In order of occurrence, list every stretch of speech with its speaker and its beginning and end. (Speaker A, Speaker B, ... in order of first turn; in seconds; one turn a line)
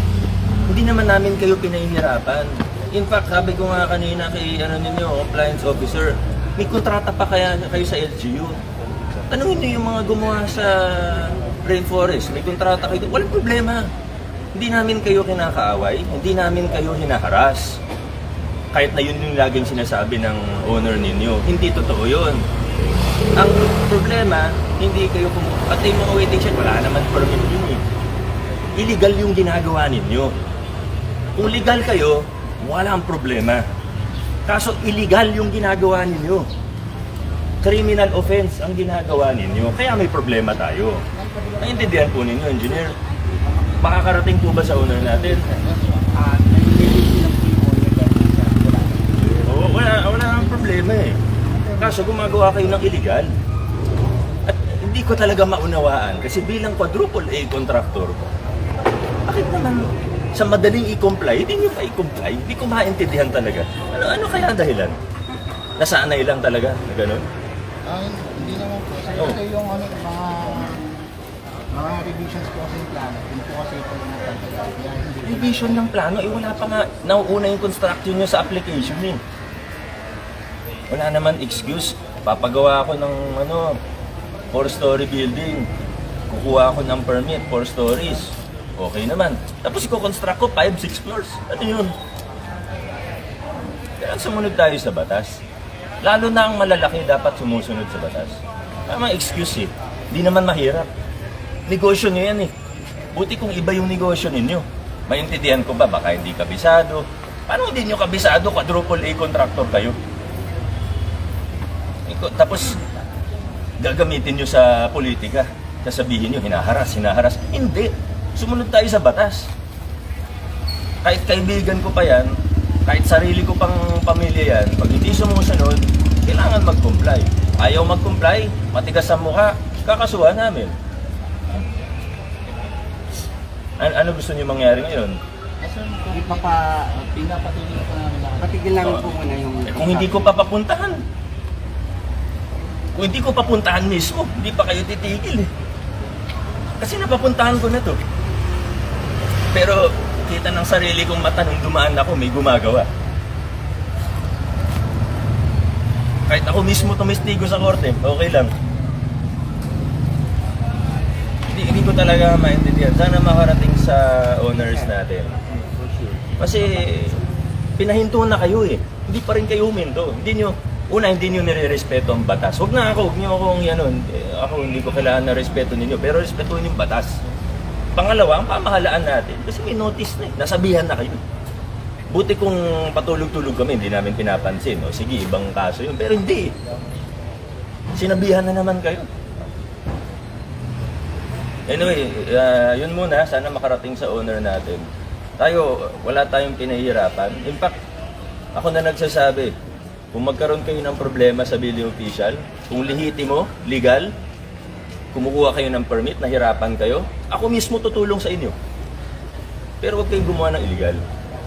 Speaker A: 0.7-8.6
Speaker A: 9.3-13.9
Speaker A: 14.6-17.8
Speaker A: 18.7-22.4
Speaker A: 23.4-27.8
Speaker A: 28.8-30.4
Speaker A: 31.4-33.6
Speaker A: 34.5-36.5
Speaker A: 37.6-41.0
Speaker B: 41.1-42.2
Speaker A: 41.6-43.0
Speaker A: 43.8-45.5
Speaker B: 44.8-46.1
Speaker C: 46.1-49.4
Speaker A: 49.3-51.2
Speaker B: 50.3-50.8
Speaker B: 51.5-52.7
Speaker A: 51.8-53.3
Speaker A: 54.5-58.3
Speaker A: 59.3-65.0
Speaker A: 65.8-67.2
Speaker B: 67.8-70.8
Speaker B: 71.7-75.9
Speaker A: 75.2-79.2
Speaker A: 80.9-83.8
Speaker A: 84.5-85.7
Speaker A: 86.3-91.9
Speaker A: 94.0-95.4
Speaker A: 96.0-100.9
Speaker A: 101.7-102.5
Speaker A: 103.2-110.0
Speaker A: 112.1-112.8
Speaker A: 113.8-119.5
Speaker A: 121.0-122.3
Speaker A: 122.9-130.8
Speaker A: 133.8-135.2
Speaker B: 135.6-138.6
Speaker C: 136.1-136.7
Speaker C: 138.4-140.3
Speaker A: 138.8-139.1
Speaker A: 139.7-141.0
Speaker A: 142.9-145.5
Speaker A: 146.8-148.0
Speaker A: 149.5-152.9
Speaker A: 156.3-158.5
Speaker A: 161.5-165.4
Speaker C: 164.5-165.0
Speaker C: 165.5-167.3
Speaker A: 166.4-167.2
Speaker A: 167.8-177.2
Speaker A: 177.9-181.2
Speaker A: 182.1-186.5
Speaker A: 187.9-189.1
Speaker A: 191.7-194.9
Speaker A: 195.4-197.8
Speaker A: 198.6-199.6
Speaker A: 200.1-204.1
Speaker A: 205.1-208.6
Speaker A: 209.8-211.0